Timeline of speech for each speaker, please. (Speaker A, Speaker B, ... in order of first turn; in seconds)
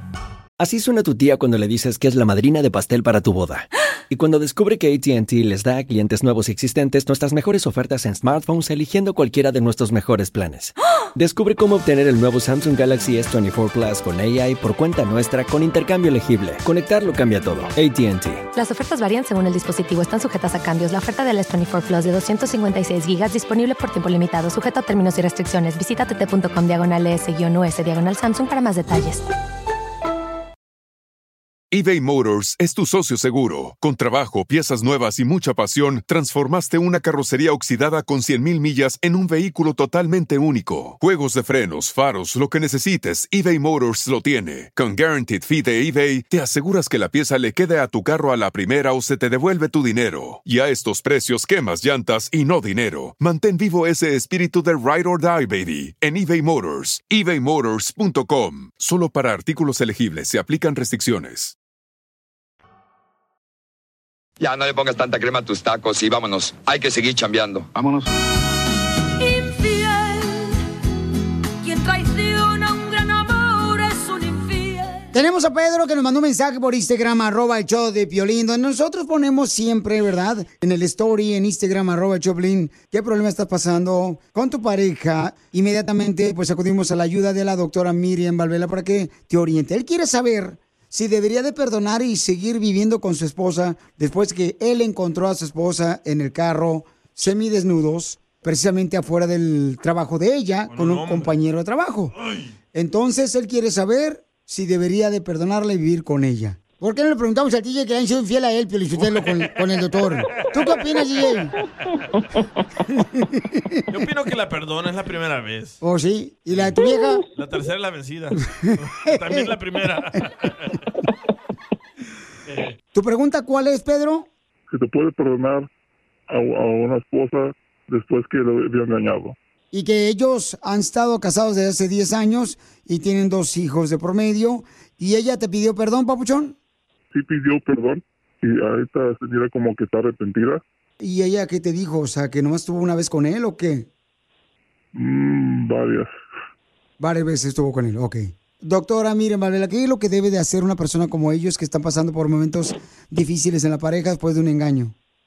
Speaker A: 0.6-18.4
Speaker B: 18.5-29.2
Speaker C: 31.7-61.5
Speaker D: 64.4-67.8
Speaker E: 69.2-70.5, 71.6-75.1
Speaker F: 75.1-102.1, 102.7-111.5, 113.0-113.8, 115.8-117.2, 118.6-119.5, 122.9-124.3, 129.7-136.5, 141.0-143.9, 147.0-154.9
Speaker G: 100.7-101.3, 102.2-102.5, 108.9-109.7, 110.3-110.6, 113.9-115.8, 116.5-116.8, 117.3-120.8, 122.5-122.7
Speaker H: 124.7-125.7, 126.3-129.3, 137.1-140.6, 144.9-146.1